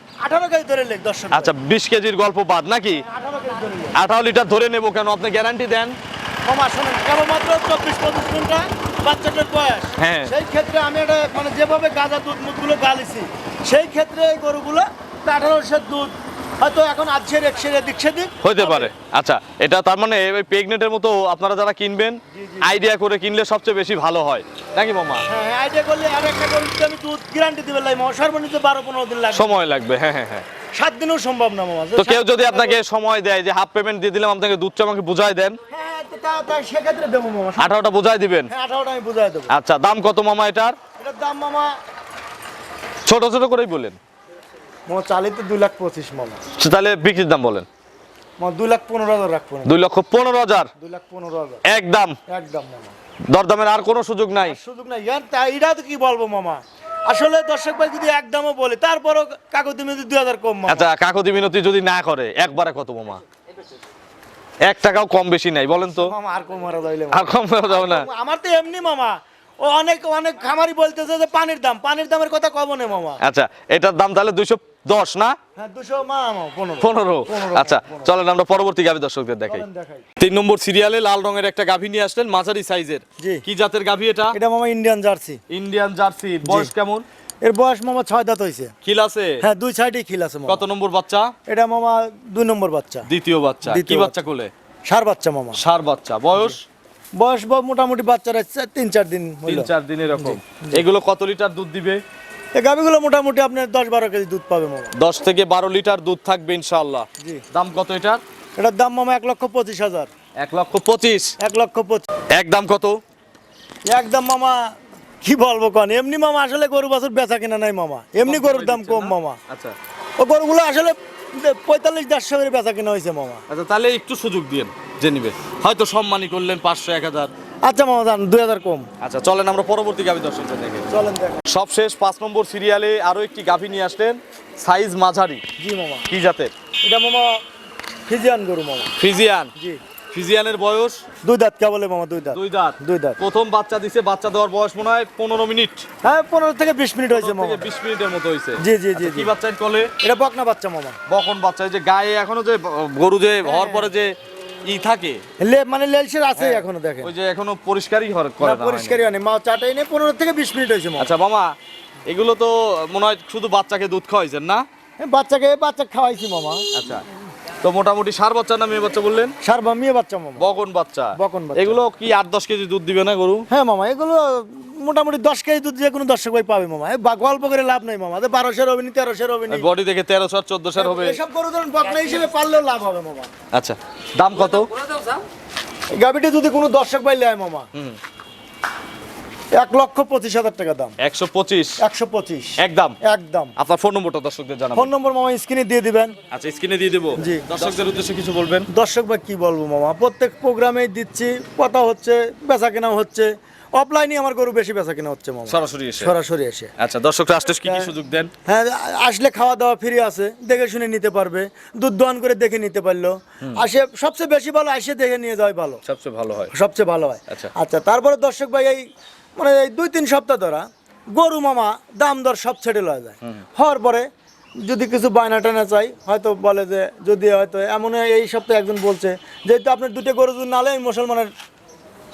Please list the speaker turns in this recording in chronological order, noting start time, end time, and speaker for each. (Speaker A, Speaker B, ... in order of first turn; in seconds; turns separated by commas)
Speaker A: 0.2-1.5, Speaker B: 1.3-3.0, Speaker A: 3.0-4.0, Speaker B: 3.9-6.0, Speaker A: 6.5-18.9, Speaker B: 10.0-10.3, Speaker B: 18.4-25.2, Speaker A: 22.3-22.8, Speaker A: 25.2-29.5, Speaker B: 29.3-30.4, Speaker A: 30.8-32.8, Speaker B: 32.0-35.6, Speaker A: 35.7-37.7, Speaker B: 37.6-38.5, Speaker A: 38.5-39.5, Speaker B: 39.5-40.8, Speaker A: 41.0-41.7, Speaker B: 43.0-44.0, Speaker A: 44.9-46.4, Speaker B: 46.6-47.7, Speaker A: 48.4-49.7, Speaker B: 49.6-50.7, Speaker A: 50.8-51.6, Speaker B: 51.6-52.2, Speaker A: 52.3-52.9, Speaker B: 53.3-54.6, Speaker A: 54.4-60.9, Speaker B: 60.7-63.2, Speaker B: 64.6-66.1, Speaker A: 66.0-73.2, Speaker B: 67.1-68.1, Speaker B: 73.2-75.3, Speaker A: 75.6-78.1, Speaker B: 76.8-79.7, Speaker A: 79.5-80.0, Speaker B: 80.2-84.3, Speaker A: 83.2-83.4, Speaker A: 84.3-85.4, Speaker B: 85.5-87.0, Speaker A: 86.4-86.7, Speaker A: 87.4-88.7, Speaker B: 88.8-89.4, Speaker A: 89.4-90.6, Speaker B: 90.5-91.3, Speaker A: 91.5-93.1, Speaker B: 93.1-94.5, Speaker A: 93.7-94.2, Speaker A: 94.9-95.6, Speaker B: 95.5-96.6, Speaker A: 97.2-100.8, Speaker B: 99.5-102.0, Speaker A: 102.5-104.9, Speaker B: 105.0-108.2, Speaker A: 108.6-110.1, Speaker B: 110.4-111.3, Speaker A: 111.4-112.1, Speaker B: 112.3-113.0, Speaker A: 113.9-114.6, Speaker A: 115.2-119.4, Speaker B: 118.2-119.7, Speaker A: 120.2-123.4, Speaker B: 123.5-127.3, Speaker A: 127.7-128.9, Speaker B: 129.0-130.9, Speaker A: 130.9-131.4, Speaker B: 131.5-135.4, Speaker A: 135.6-136.1, Speaker B: 136.1-136.5, Speaker A: 136.8-137.4, Speaker A: 138.1-138.9, Speaker B: 139.0-139.5, Speaker B: 140.1-141.0, Speaker A: 141.2-143.2, Speaker B: 142.3-145.9, Speaker A: 146.0-147.7, Speaker B: 147.1-149.9, Speaker A: 148.6-149.3, Speaker A: 150.0-151.0, Speaker B: 151.1-154.1, Speaker A: 153.4-153.9, Speaker B: 154.7-155.2, Speaker A: 155.4-157.1, Speaker B: 156.3-159.0, Speaker A: 158.4-161.1, Speaker B: 161.0-161.5, Speaker B: 162.1-164.6, Speaker A: 165.0-166.7, Speaker B: 166.7-167.0, Speaker B: 167.6-169.3, Speaker A: 169.4-170.4, Speaker B: 170.4-173.4, Speaker A: 171.2-171.8, Speaker A: 173.5-179.7, Speaker B: 179.5-181.2, Speaker A: 180.8-183.3, Speaker B: 183.5-184.8, Speaker A: 185.9-187.7, Speaker A: 189.6-190.9, Speaker B: 191.0-191.8, Speaker A: 191.8-193.5, Speaker B: 192.6-193.0, Speaker B: 193.6-194.9, Speaker A: 194.7-196.1, Speaker B: 196.3-198.7, Speaker A: 197.2-197.5, Speaker A: 198.7-206.7, Speaker B: 205.5-206.1, Speaker B: 206.8-208.3, Speaker A: 207.6-207.9, Speaker A: 208.4-215.8, Speaker B: 215.8-216.5, Speaker A: 216.5-218.8, Speaker A: 219.4-220.6, Speaker A: 221.2-224.1, Speaker A: 224.7-231.3